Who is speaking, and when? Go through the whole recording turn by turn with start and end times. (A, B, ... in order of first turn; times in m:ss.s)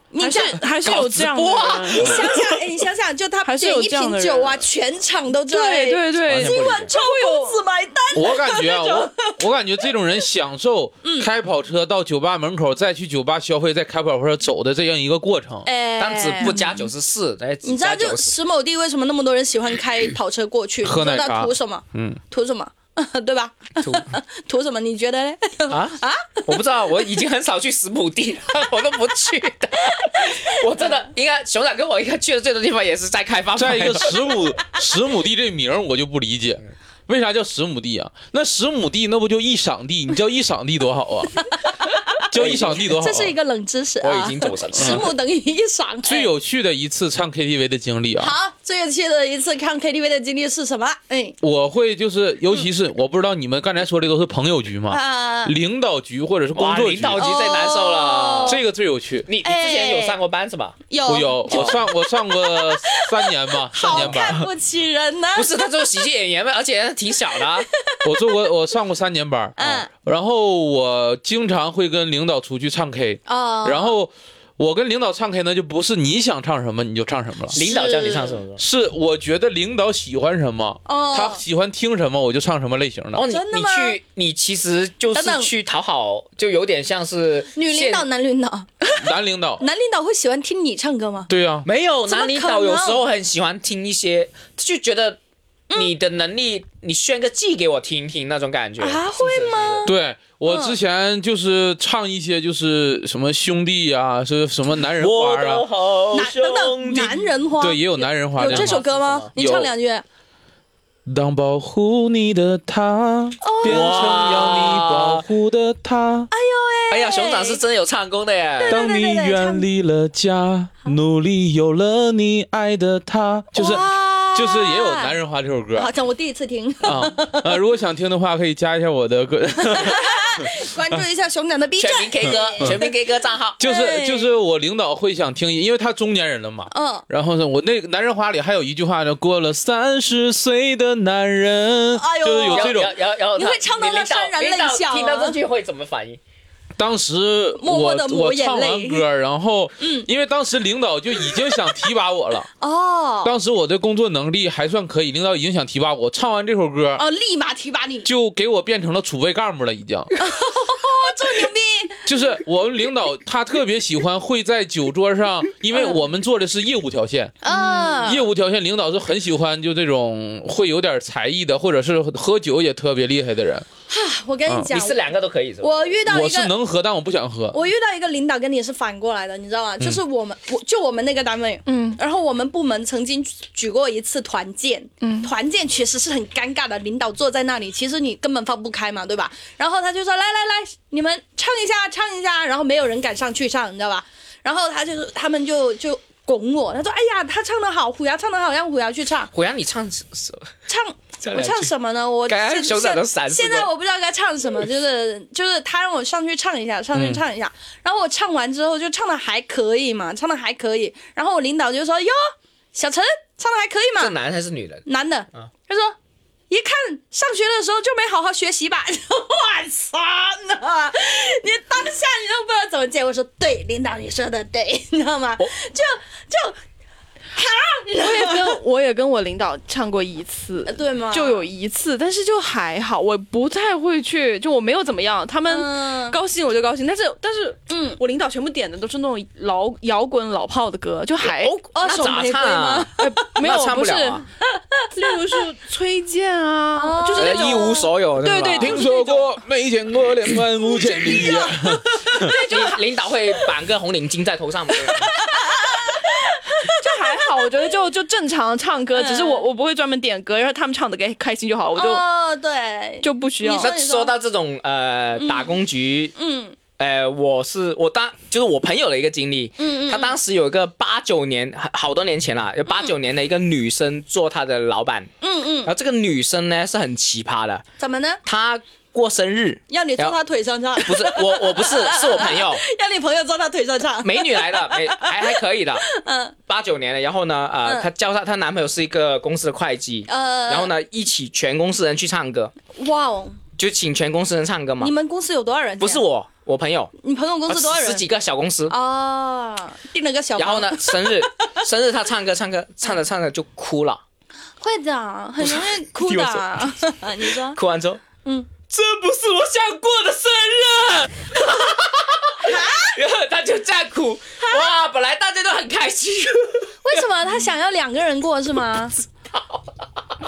0:00.1-0:00.7 A
0:00.2-0:02.2 B
0:00.7-0:02.6 C
0:01.9-0:09.4 A
0:03.4-0:04.7 B
0:05.5-0:07.6 B
0:06.2-0:06.9 C
0:08.2-0:15.7 D
0:11.0-0:11.3 A
0:15.6-0:16.6 A
0:16.0-0:18.3 C
0:16.4-0:16.8 B
0:17.6-0:26.6 A
0:20.8-0:22.2 D
0:21.1-0:21.5 C
0:23.8-0:24.1 C
0:25.7-0:34.2 C
0:33.6-0:41.4 D
0:41.4-0:42.3 A
0:42.3-0:43.4 D
0:42.3-0:43.0 C
0:42.8-0:46.3 A
0:44.0-0:45.1 C
0:44.8-0:45.0 D
0:46.0-0:48.3 D
0:48.2-0:51.4 A
0:51.4-0:57.3 D
0:54.9-0:55.5 A
0:56.6-0:58.6 C
0:57.2-0:58.6 A
0:58.5-0:59.3 D
0:59.3-1:00.8 C
0:59.4-1:00.2 A
1:00.9-1:05.7 A
1:01.1-1:04.4 D
1:01.5-1:01.8 C
1:03.8-1:04.5 C
1:05.3-1:07.7 C
1:07.7-1:08.0 A
1:08.0-1:17.6 D
1:09.6-1:09.9 A
1:13.3-1:13.9 A
1:17.5-1:18.6 C
1:17.6-1:18.4 A
1:18.6-1:23.2 D
1:20.9-1:21.4 A
1:23.2-1:28.1 C
1:23.3-1:24.0 A
1:25.1-1:25.5 A
1:27.5-1:29.0 A
1:29.0-1:29.6 D
1:29.6-1:31.3 A
1:31.3-1:31.7 D
1:31.6-1:35.2 C
1:32.1-1:33.0 A
1:35.7-1:39.9 C
1:38.8-1:39.9 A
1:39.8-1:45.6 D
1:40.5-1:40.8 A
1:45.0-1:47.2 C
1:46.1-1:50.0 A
1:47.6-1:48.8 D
1:48.4-1:49.3 C
1:49.4-1:49.7 D
1:51.1-1:56.3 D
1:53.4-1:54.3 A
1:53.6-1:55.2 C
1:56.3-1:57.6 A
1:56.9-1:58.8 C
1:58.6-1:59.7 A
1:58.7-2:05.9 D
2:03.6-2:05.2 A
2:05.8-2:07.6 A
2:06.8-2:11.0 D
2:09.6-2:13.0 A
2:11.8-2:13.6 C
2:13.6-2:14.3 A
2:13.6-2:22.9 D
2:16.7-2:17.1 A
2:21.9-2:22.8 A
2:22.5-2:26.2 C
2:23.3-2:25.4 A
2:26.8-2:32.5 D
2:27.6-2:29.0 A
2:29.8-2:30.1 A
2:31.3-2:31.6 A
2:32.6-2:33.3 A
2:33.2-2:37.0 D
2:37.0-2:38.1 A
2:38.0-2:40.1 D
2:40.2-2:42.0 A
2:42.1-2:47.4 D
2:45.7-2:46.0 A
2:47.4-2:48.3 A
2:48.0-2:53.7 D
2:53.9-2:55.0 A
2:54.7-2:56.0 C
2:55.6-2:56.5 A
2:56.1-2:57.6 D
2:57.5-3:19.3 A
3:01.7-3:02.0 B
3:05.0-3:05.3 B
3:19.3-3:20.5 C
3:20.7-3:34.2 A
3:21.2-3:21.7 C
3:22.3-3:23.7 C
3:26.9-3:27.2 D
3:34.0-3:35.5 C
3:34.9-3:36.0 A
3:36.5-3:46.6 A
3:47.3-3:48.6 A
3:48.0-4:01.5 B
3:50.7-3:51.5 A
3:55.5-3:56.2 A
3:57.7-3:58.0 A
4:01.2-4:04.3 C
4:01.7-4:03.4 A
4:03.0-4:04.2 B
4:04.9-4:09.3 B
4:06.8-4:07.9 A
4:07.2-4:08.8 C
4:08.6-4:12.3 D
4:10.6-4:12.7 A
4:12.1-4:12.8 B
4:12.5-4:15.1 C
4:15.2-4:17.5 A
4:16.6-4:22.0 B
4:19.0-4:19.5 A
4:21.8-4:24.2 A
4:23.0-4:23.7 B
4:23.6-4:26.1 C
4:25.2-4:25.6 A
4:26.2-4:26.6 A
4:26.8-4:35.1 C
4:29.6-4:30.2 A
4:35.2-4:35.7 A
4:35.7-4:37.6 C
4:37.8-4:38.2 A
4:38.2-4:40.2 C
4:39.7-4:46.4 A
4:40.8-4:42.6 C
4:44.0-4:45.9 C
4:46.5-4:52.5 C
4:50.1-4:50.7 A
4:52.7-4:53.4 A
4:53.6-4:54.9 C
4:54.8-4:56.0 A
4:55.8-4:56.9 C
4:57.0-4:58.1 A
4:57.5-4:58.8 C
4:58.7-5:01.3 A
5:00.4-5:04.0 C
5:04.6-5:07.6 A
5:05.4-5:08.0 C
5:08.2-5:08.5 A
5:08.7-5:17.1 C
5:12.4-5:13.0 A
5:14.4-5:14.7 A
5:16.8-5:19.0 A
5:19.2-5:20.0 C